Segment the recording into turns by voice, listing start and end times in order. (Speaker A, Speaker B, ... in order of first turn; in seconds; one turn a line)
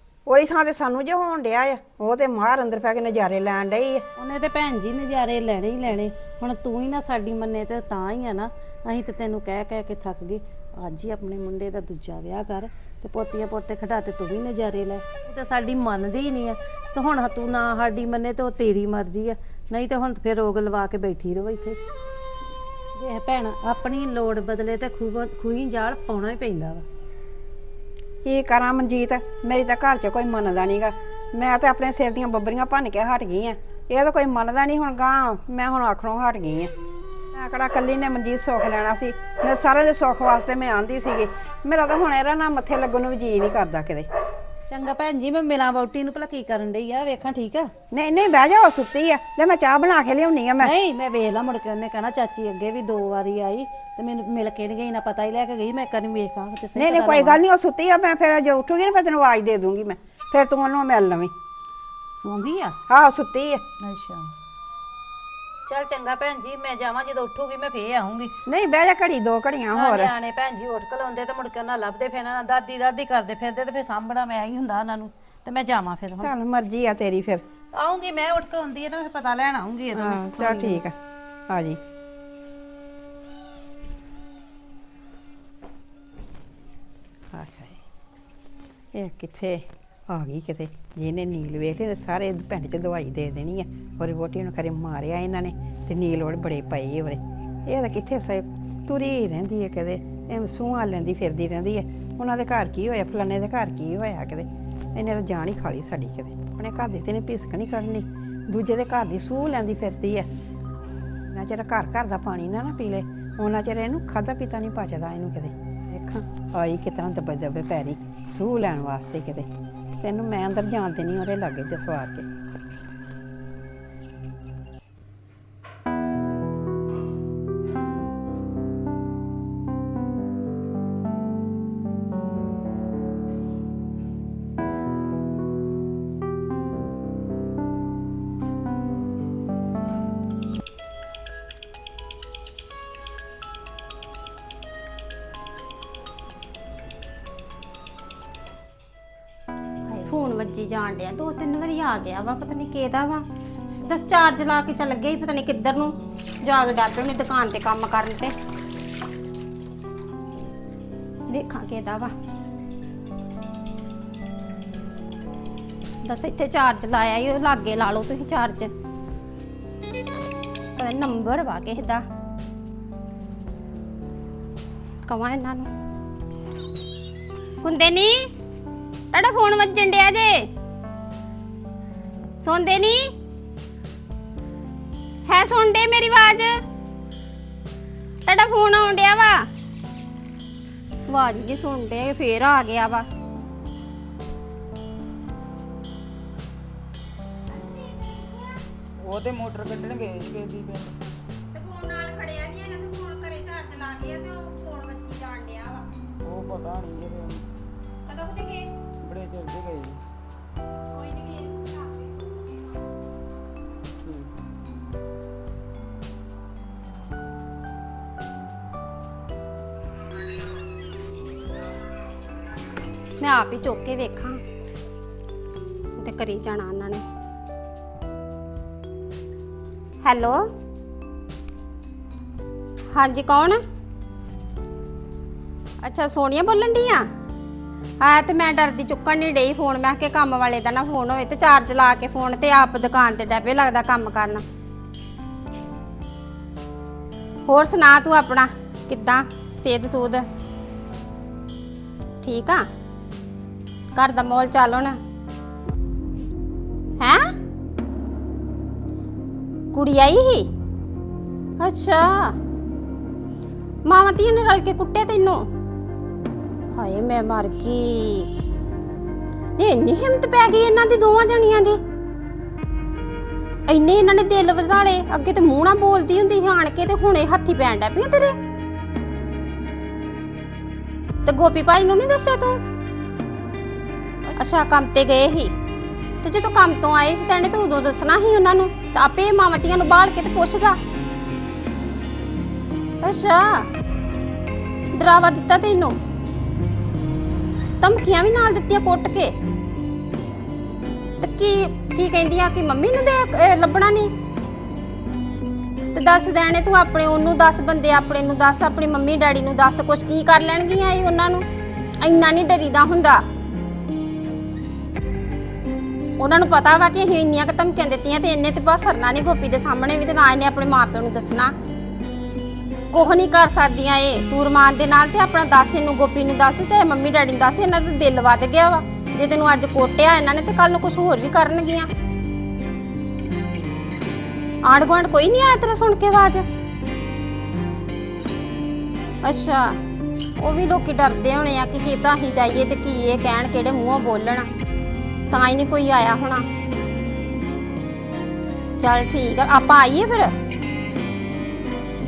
Speaker A: 0.2-4.0
Speaker B: 4.2-21.8
Speaker B: 22.9-26.8
Speaker A: 28.2-36.7
Speaker A: 37.3-44.1
Speaker B: 44.7-47.7
Speaker A: 47.9-50.7
Speaker B: 50.6-57.4
Speaker A: 56.8-61.3
Speaker B: 62.2-62.8
Speaker A: 62.9-63.6
Speaker B: 63.8-64.3
Speaker B: 65.7-68.3
Speaker A: 68.5-70.1
Speaker B: 69.7-76.3
Speaker A: 76.2-77.4
Speaker B: 77.7-80.8
Speaker A: 79.9-80.9
Speaker A: 81.5-81.8
Speaker A: 87.3-87.8
Speaker A: 88.9-110.3
Speaker A: 111.3-119.5
Speaker A: 120.0-122.3
Speaker C: 149.9-153.2
Speaker C: 153.8-158.3
Speaker C: 161.3-162.1
Speaker C: 166.0-168.7
Speaker C: 170.8-172.0
Speaker C: 175.0-175.7
Speaker C: 177.6-178.2
Speaker C: 179.1-180.5
Speaker C: 182.4-183.1
Speaker C: 185.2-186.6
Speaker C: 188.2-189.4
Speaker C: 191.1-193.1
Speaker C: 197.5-198.6
Speaker D: 199.0-200.9
Speaker C: 201.5-205.9
Speaker D: 206.2-207.4
Speaker C: 208.1-208.7
Speaker D: 209.0-210.0
Speaker C: 210.9-212.3
Speaker D: 214.0-214.3
Speaker C: 223.2-224.4
Speaker C: 226.0-227.0
Speaker C: 230.0-230.4
Speaker C: 232.9-233.6
Speaker C: 235.8-237.1
Speaker C: 238.0-244.4
Speaker C: 247.4-250.2
Speaker C: 252.2-252.6
Speaker C: 253.9-255.0
Speaker C: 257.0-257.2
Speaker C: 259.7-260.5
Speaker C: 261.6-262.3
Speaker C: 263.9-265.4
Speaker C: 266.7-268.3
Speaker C: 269.6-271.8
Speaker C: 273.7-278.4
Speaker C: 281.2-282.6
Speaker C: 284.3-285.5
Speaker C: 286.2-290.8
Speaker C: 293.0-293.7
Speaker C: 294.9-296.0
Speaker C: 297.8-299.3
Speaker C: 301.2-304.1
Speaker C: 305.9-311.4
Speaker C: 312.0-313.2
Speaker C: 316.2-321.5
Speaker C: 322.9-331.9
Speaker C: 334.6-336.4
Speaker C: 339.2-339.8
Speaker C: 340.4-344.5
Speaker C: 345.3-346.4
Speaker C: 348.8-350.3